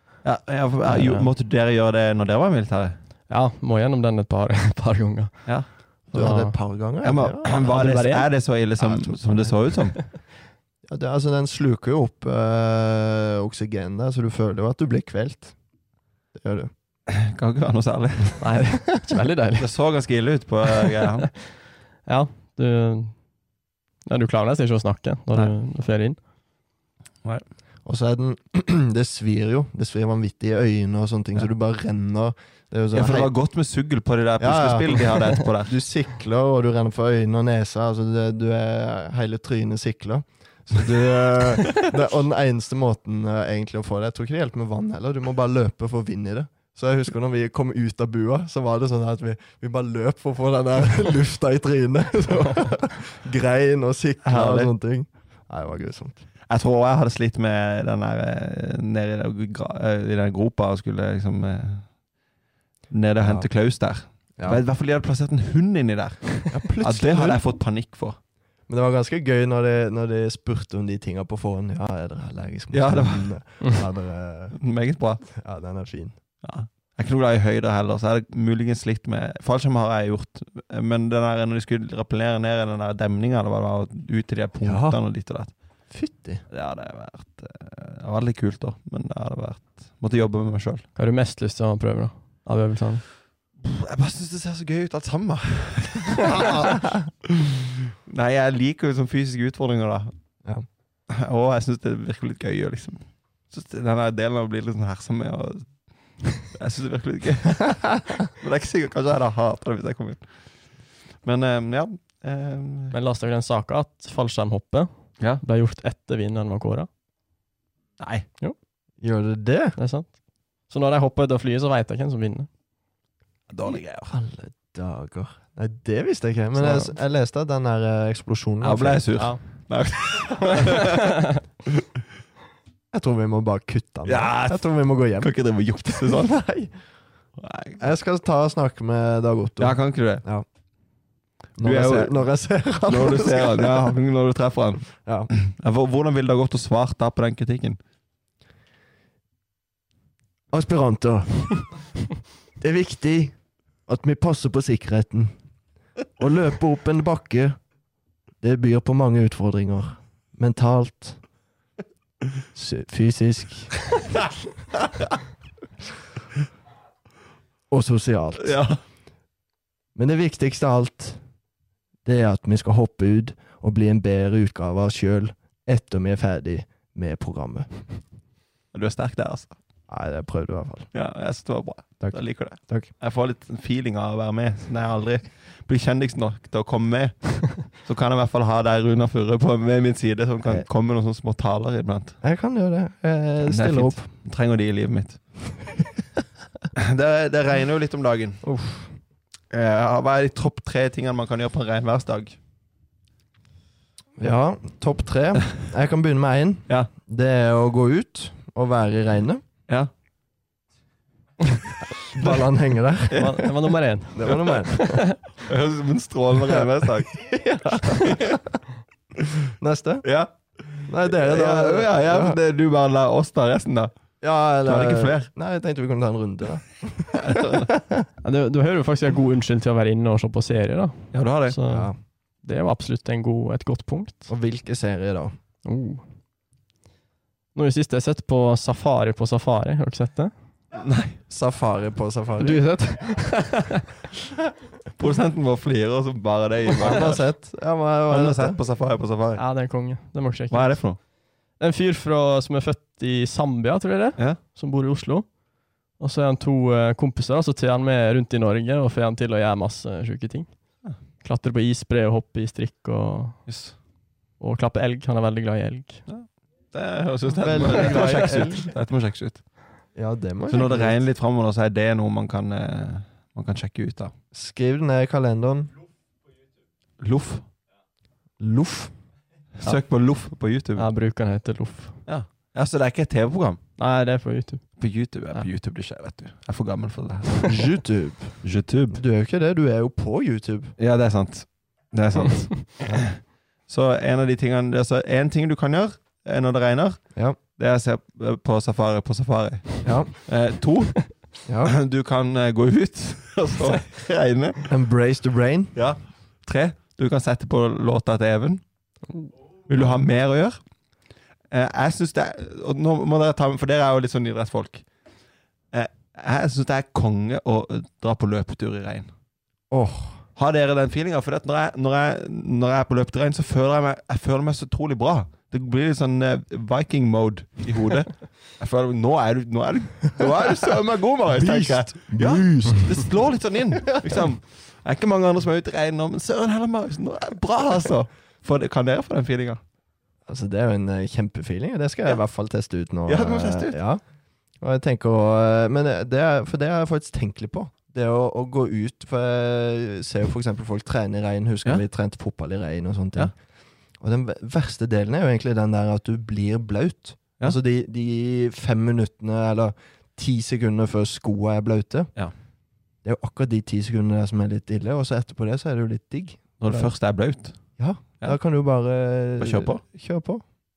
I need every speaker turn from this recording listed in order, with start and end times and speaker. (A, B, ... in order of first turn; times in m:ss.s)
0:00.2-0:03.0 A
0:00.9-0:01.3 B
0:03.3-0:06.6 B
0:05.5-0:06.3 A
0:06.1-0:07.6 C
0:07.0-0:10.0 A
0:07.5-0:08.3 B
0:08.8-0:09.6 C
0:10.9-0:15.6 C
0:16.4-0:16.7 C
0:17.1-0:18.6 A
0:18.4-0:19.7 B
0:19.6-0:21.3 A
0:20.7-0:23.2 B
0:24.1-0:26.2 B
0:27.9-0:33.3 C
0:32.9-0:35.7 A
0:34.4-0:56.3 C
0:52.3-0:52.7 B
0:54.2-0:54.7 A
0:56.5-1:01.9 A
1:02.9-1:08.2 A
1:03.2-1:03.5 C
1:04.4-1:04.6 C
1:06.5-1:07.4 C
1:08.7-1:14.6 C
1:12.7-1:13.4 A
1:14.6-1:15.2 A
1:15.3-1:16.2 C
1:16.4-1:25.5 A
1:24.6-1:25.0 C
1:25.9-1:26.4 C
1:26.5-1:30.8 A
1:31.0-1:33.1 B
1:33.6-1:40.1 A
1:41.1-1:45.7 A
1:46.4-1:50.3 A
1:51.2-1:53.0 A
1:52.9-1:56.9 B
1:58.0-1:58.3 A
1:59.0-1:59.8 C
1:59.8-2:00.2 B
2:00.7-2:02.5 B
2:03.5-2:04.1 A
2:04.1-2:09.1 C
2:06.6-2:06.9 A
2:08.6-2:11.2 A
2:09.2-2:09.4 B
2:10.2-2:11.4 B
2:12.9-2:16.7 C
2:14.0-2:14.7 A
2:15.2-2:16.4 A
2:17.4-2:17.8 A
2:17.8-2:20.5 C
2:19.6-2:20.2 A
2:21.6-2:23.9 C
2:21.6-2:22.2 A
2:22.9-2:27.8 A
2:25.0-2:25.3 C
2:30.5-2:31.7 C
2:32.6-2:33.4 C
2:33.9-2:35.3 C
2:36.2-2:37.6 C
2:38.4-2:41.2 C
2:42.5-2:43.8 C
2:44.8-2:45.2 A
2:47.7-2:48.6 C
2:48.4-2:48.8 A
2:50.0-2:51.2 C
2:52.0-2:57.9 C
2:58.7-2:59.6 A
2:59.9-3:00.9 C
3:00.9-3:12.2 A
3:02.0-3:02.9 C
3:12.2-3:14.1 C
3:13.4-3:15.2 A
3:16.8-3:18.4 A
3:18.4-3:18.9 C
3:19.5-3:22.4 A
3:24.2-3:29.4 C
3:32.0-3:33.3 C
3:33.1-3:33.7 A
3:33.1-3:35.2 B
3:34.2-3:35.0 C
3:34.3-3:34.5 A
3:35.4-3:37.1 A
3:36.4-3:38.6 C
3:38.0-3:38.4 A
3:39.6-3:40.1 C
3:40.0-3:43.9 A
3:40.9-3:42.4 C
3:44.2-3:48.1 C
3:44.6-3:45.3 A
3:47.2-3:47.7 A
3:48.2-3:51.9 B
3:51.1-3:51.6 A
3:51.7-3:52.0 C
3:52.4-3:54.3 B
3:54.3-3:55.4 C
3:55.6-3:56.0 B
3:57.6-4:00.3 B
4:00.7-4:01.2 A
4:01.3-4:02.6 C
4:02.4-4:03.9 B
4:05.0-4:07.2 A
4:06.8-4:08.6 C
4:08.1-4:09.4 A
4:09.4-4:11.0 B
4:10.5-4:11.0 A
4:11.6-4:15.3 B
4:16.0-4:20.5 B
4:21.2-4:23.5 B
4:23.5-4:23.8 A
4:24.4-4:26.0 B
4:26.1-4:29.4 A
4:27.4-4:28.6 C
4:30.0-4:31.0 C
4:30.5-4:34.1 A
4:34.3-4:35.7 C
4:37.0-4:37.4 A
4:38.4-4:38.9 C
4:39.6-4:40.9 A
4:40.8-4:42.0 B
4:42.1-4:43.6 A
4:43.8-4:44.7 B
4:44.8-4:47.7 A
4:47.4-4:50.7 C
4:48.4-4:49.0 A
4:50.8-4:57.0 A
4:57.6-5:04.7 A
4:59.8-5:00.1 C
5:01.5-5:01.7 C
5:04.7-5:05.8 C
5:05.8-5:08.6 A
5:09.7-5:10.6 A
5:11.5-5:14.8 A
5:15.7-5:19.1 A
5:19.7-5:20.2 C
5:20.4-5:39.6 A
5:31.3-5:33.0 C
5:40.3-5:44.0 C
5:43.1-5:43.8 A
5:44.6-5:53.3 C
5:54.0-6:02.1 C
6:03.0-6:06.9 C
6:06.6-6:07.6 A
6:07.8-6:10.4 C
6:09.4-6:09.8 A